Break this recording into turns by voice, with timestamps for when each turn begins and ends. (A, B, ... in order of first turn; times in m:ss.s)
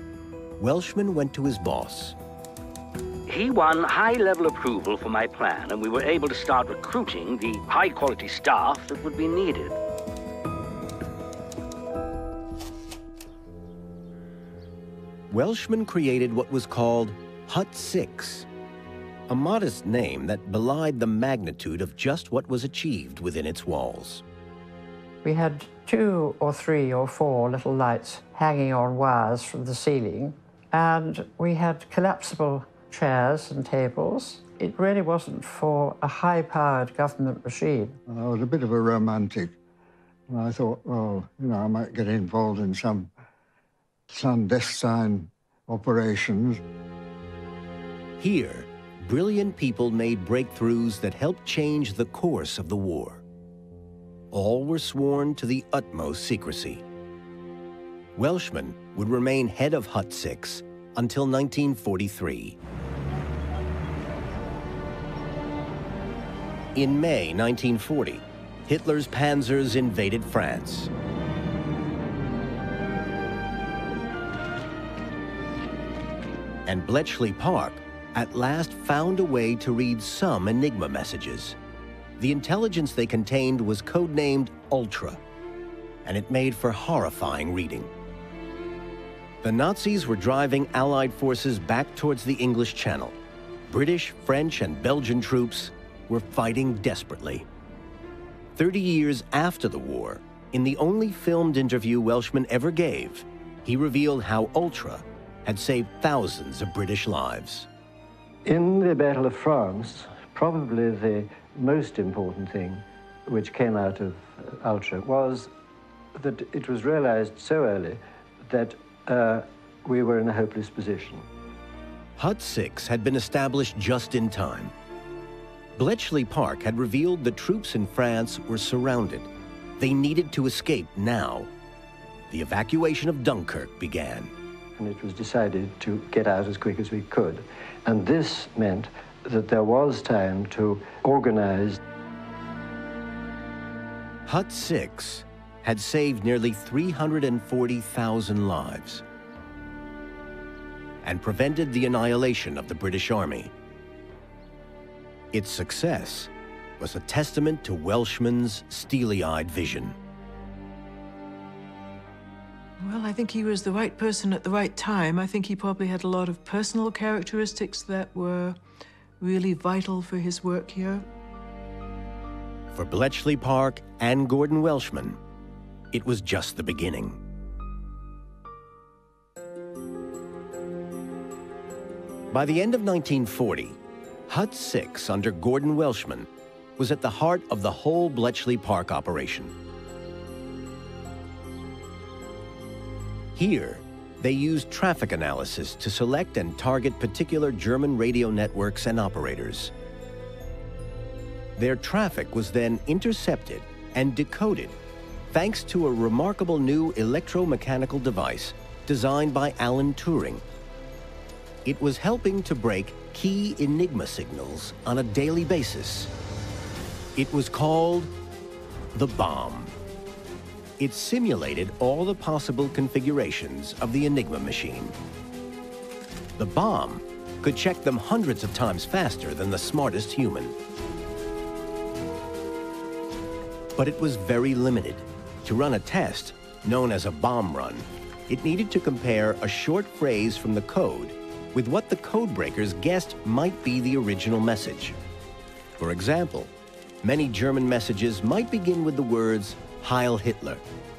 0:00.6-0:02.2 A
0:03.3-0:09.8 B
0:15.3-0:18.5 A
0:19.3-0:24.2 A
0:25.2-0:38.0 C
0:38.1-0:39.5 D
0:40.3-0:43.1 D
0:44.1-0:46.6 D
0:48.2-0:53.2 A
0:54.3-0:56.8 A
0:58.2-1:02.6 A
1:06.8-1:10.9 A
1:16.7-1:21.6 A
1:22.2-1:25.2 A
1:26.0-1:27.9 A
1:29.4-1:33.2 A
1:33.7-1:37.5 A
1:38.6-1:47.7 A
1:48.4-1:55.5 E
1:56.2-2:01.3 E
2:02.2-2:04.7 A
2:05.8-2:11.5 A
2:12.3-2:14.3 A
2:14.8-2:21.8 E
2:24.2-2:29.0 A
2:31.0-2:33.5 A
2:35.3-2:40.0 A
2:42.8-2:48.6 F
2:49.2-2:51.0 F
2:52.7-2:55.2 A
2:55.9-2:57.2 A
3:02.3-3:03.8 A
3:04.3-3:09.5 A
3:13.3-3:19.7 A
3:21.6-3:24.8 A
3:25.3-3:30.4 A
3:31.6-3:36.1 A
3:37.2-3:38.1 A
3:38.9-3:39.7 A
3:40.8-3:45.0 A
3:46.4-3:50.5 A
3:53.8-4:05.0 A
4:05.8-4:06.5 A
4:07.0-4:10.6 A